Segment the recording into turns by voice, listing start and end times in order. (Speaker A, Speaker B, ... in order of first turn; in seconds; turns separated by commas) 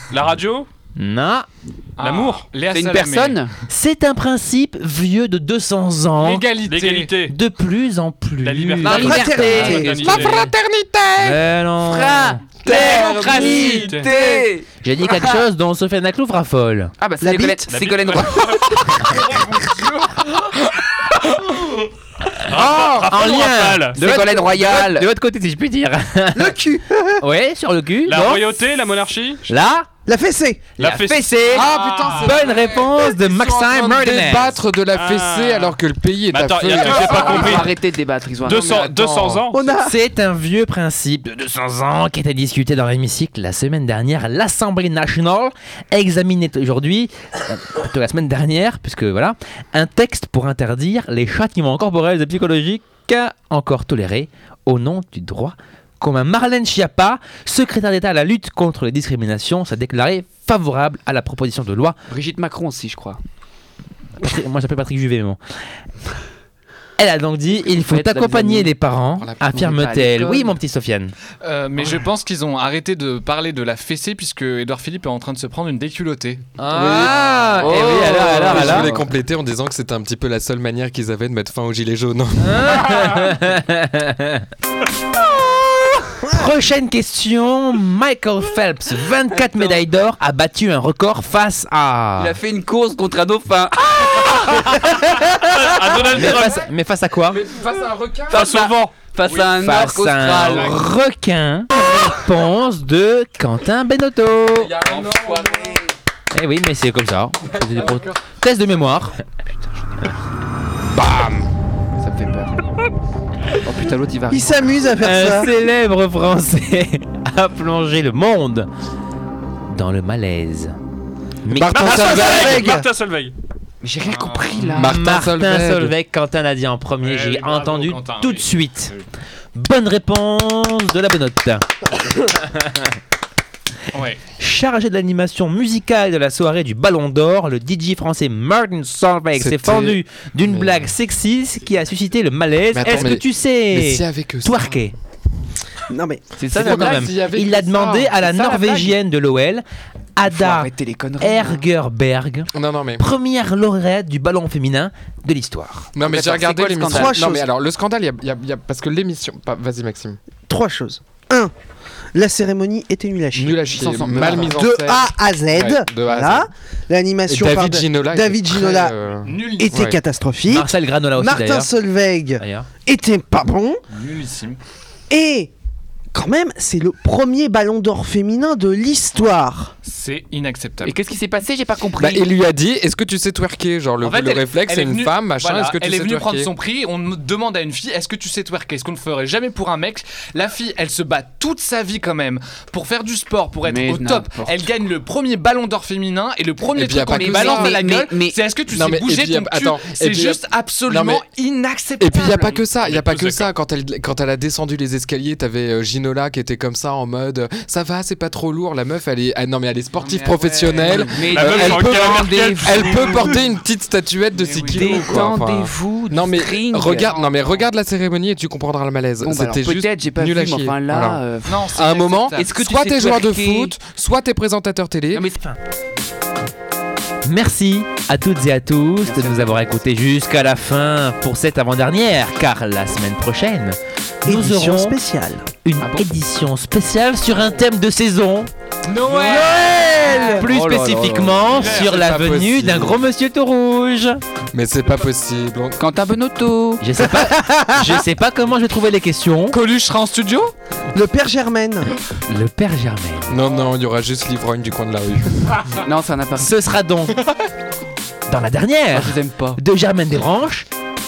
Speaker A: 0.1-0.7, Speaker B: 1.0-1.5, Speaker C: 2.0-3.4, Speaker A: 2.0-2.5, Speaker D: 2.7-3.5, Speaker B: 3.7-6.5, Speaker C: 6.2-7.1, Speaker A: 6.7-7.3, Speaker B: 7.3-10.5, Speaker A: 8.4-10.5, Speaker D: 8.8-10.1, Speaker E: 8.9-10.3, Speaker F: 9.9-11.4, Speaker B: 11.2-13.9, Speaker D: 11.8-15.4, Speaker F: 12.7-14.2, Speaker A: 13.2-14.1, Speaker B: 14.8-16.9, Speaker D: 17.0-18.6, Speaker E: 17.2-17.7, Speaker A: 17.7-19.6, Speaker A: 22.4-24.0, Speaker F: 22.6-23.1, Speaker B: 23.1-26.6, Speaker D: 23.9-25.1, Speaker E: 26.3-27.2, Speaker B: 27.2-28.6, Speaker A: 28.1-29.5, Speaker B: 29.5-29.9, Speaker E: 30.1-30.7, Speaker A: 30.8-32.4, Speaker D: 30.8-31.7, Speaker F: 31.5-37.7, Speaker B: 32.1-34.6, Speaker A: 34.9-35.8, Speaker A: 36.3-37.7, Speaker D: 36.8-39.1, Speaker A: 38.4-39.6, Speaker F: 38.7-39.5, Speaker E: 39.5-40.0, Speaker B: 39.8-62.0, Speaker D: 62.1-63.2, Speaker B: 64.2-65.4, Speaker B: 67.0-71.1, Speaker D: 67.7-68.7, Speaker F: 69.2-69.7, Speaker D: 69.5-70.6, Speaker C: 71.4-76.4, Speaker B: 76.6-78.9, Speaker F: 76.7-83.0, Speaker D: 77.6-79.1, Speaker B: 82.4-84.5, Speaker B: 86.1-92.4, Speaker D: 89.3-89.8, Speaker D: 92.2-94.9, Speaker A: 94.7-96.7, Speaker B: 96.1-97.4, Speaker F: 97.3-98.5, Speaker D: 98.3-100.8, Speaker A: 98.3-98.9, Speaker B: 99.5-104.7, Speaker F: 104.6-105.8, Speaker D: 104.9-105.8, Speaker B: 106.3-109.2, Speaker D: 109.8-110.1, Speaker F: 110.9-111.5, Speaker D: 112.0-112.6, Speaker D: 113.6-114.7, Speaker E: 114.3-115.5, Speaker B: 115.0-118.7, Speaker B: 119.7-120.8, Speaker B: 121.5-122.2, Speaker F: 121.6-122.6, Speaker E: 121.6-122.9, Speaker A: 121.7-123.3, Speaker D: 123.8-124.9, Speaker C: 124.1-124.8, Speaker F: 124.7-126.0, Speaker B: 124.8-128.9, Speaker C: 127.0-129.0, Speaker B: 129.6-131.7, Speaker C: 133.9-134.2, Speaker B: 134.4-145.0, Speaker F: 139.4-140.9, Speaker F: 142.7-144.8, Speaker E: 145.9-146.3, Speaker D: 146.4-149.0, Speaker F: 146.5-147.8, Speaker B: 146.5-149.7, Speaker B: 150.2-155.9, Speaker D: 150.2-151.6, Speaker F: 152.5-153.0, Speaker F: 155.9-160.2, Speaker D: 156.0-157.3, Speaker E: 156.8-157.4, Speaker E: 160.5-161.5, Speaker E: 162.1-168.9, Speaker D: 163.4-164.6, Speaker F: 163.4-166.5, Speaker F: 167.3-170.0, Speaker C: 169.2-169.9, Speaker E: 169.6-173.8, Speaker B: 170.5-171.7, Speaker B: 172.4-172.7, Speaker C: 173.9-174.6, Speaker E: 175.1-175.5, Speaker E: 176.1-179.7, Speaker C: 179.8-181.0, Speaker D: 180.8-182.3, Speaker F: 182.0-186.5, Speaker C: 184.0-202.6, Speaker D: 193.6-194.6, Speaker F: 196.8-197.7, Speaker D: 197.1-198.4, Speaker F: 198.7-201.2, Speaker F: 202.0-225.3, Speaker A: 202.8-203.5, Speaker C: 210.0-211.2, Speaker D: 210.9-213.4, Speaker A: 211.2-213.2, Speaker C: 214.4-215.1, Speaker D: 214.6-217.3, Speaker D: 219.2-221.7, Speaker C: 221.5-222.5, Speaker D: 222.3-223.7, Speaker D: 225.1-225.4, Speaker B: 227.2-235.0, Speaker D: 229.0-229.8, Speaker E: 234.3-235.5, Speaker B: 235.6-238.5, Speaker D: 235.8-236.1, Speaker C: 238.9-240.3, Speaker B: 239.0-244.2, Speaker E: 239.2-240.5, Speaker D: 239.4-241.4, Speaker C: 241.5-242.1, Speaker F: 241.5-243.1, Speaker F: 244.5-245.8, Speaker D: 245.8-246.8, Speaker B: 246.8-249.6, Speaker E: 247.1-248.0, Speaker C: 249.5-250.5, Speaker E: 250.9-251.9, Speaker B: 252.3-253.4, Speaker F: 253.3-255.7, Speaker D: 255.8-256.6, Speaker B: 256.4-257.2, Speaker B: 258.3-260.7, Speaker D: 258.9-259.6